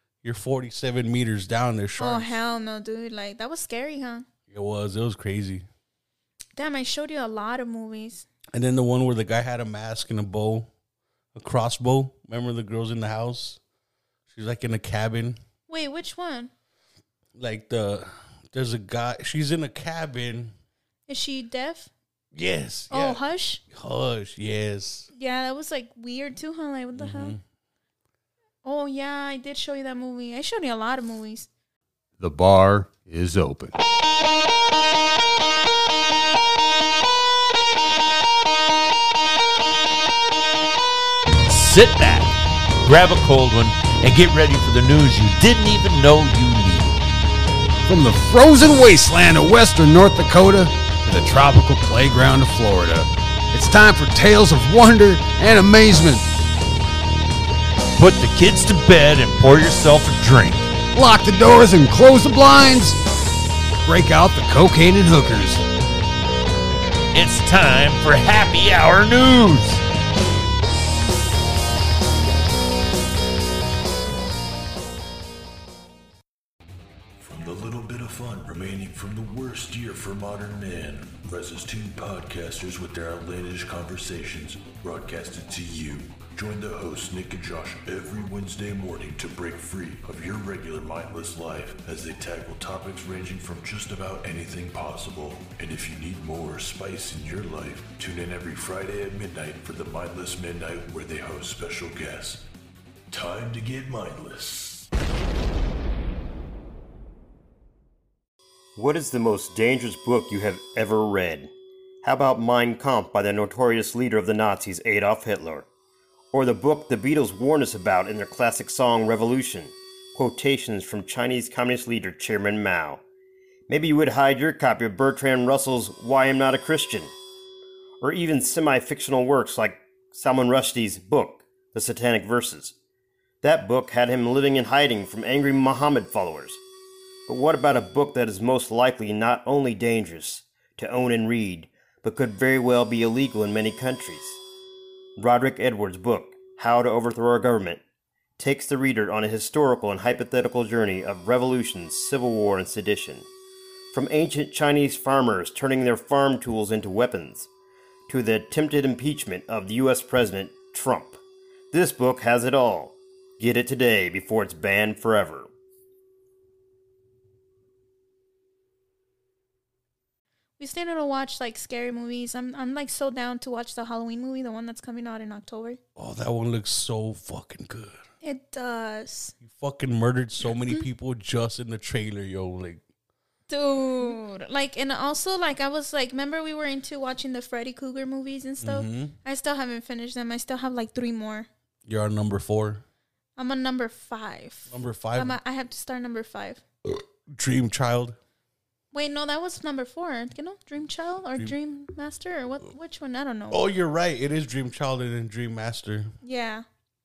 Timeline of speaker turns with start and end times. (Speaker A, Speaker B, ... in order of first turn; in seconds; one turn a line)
Speaker A: 0.2-2.4
Speaker B: 2.0-4.3
Speaker A: 4.5-5.6
Speaker B: 6.6-8.3
Speaker A: 8.5-10.7
Speaker A: 11.3-13.6
Speaker A: 14.3-15.4
Speaker B: 15.7-16.5
Speaker A: 17.4-20.5
Speaker B: 21.1-21.9
Speaker A: 22.3-25.1
Speaker B: 22.9-23.6
Speaker B: 25.1-27.4
Speaker A: 27.0-27.4
Speaker B: 28.6-31.5
Speaker C: 32.2-33.7
Speaker C: 41.5-42.3
Speaker C: 42.9-47.0
Speaker D: 47.9-56.3
Speaker C: 58.0-60.6
Speaker D: 60.9-63.0
Speaker D: 63.9-65.6
Speaker C: 67.1-69.8
Speaker E: 77.2-102.4
Speaker E: 103.1-104.9
Speaker F: 108.8-111.5
Speaker F: 112.0-115.7
Speaker F: 116.3-123.0
Speaker F: 123.7-127.1
Speaker F: 128.0-132.8
Speaker F: 133.4-136.6
Speaker F: 137.3-144.4
Speaker F: 145.2-147.8
Speaker F: 148.4-153.3
Speaker F: 153.9-157.5
Speaker F: 158.1-161.2
Speaker F: 161.7-165.5
Speaker B: 170.6-175.8
Speaker A: 176.0-178.0
Speaker B: 178.2-179.3
Speaker A: 179.4-182.8
Speaker B: 183.5-191.5
Speaker A: 188.6-189.2
Speaker A: 191.9-192.8
Speaker B: 193.4-196.6
Speaker A: 194.7-195.4
Speaker A: 196.9-198.2
Speaker B: 198.9-203.6
Speaker A: 203.5-206.1
Speaker B: 206.2-206.6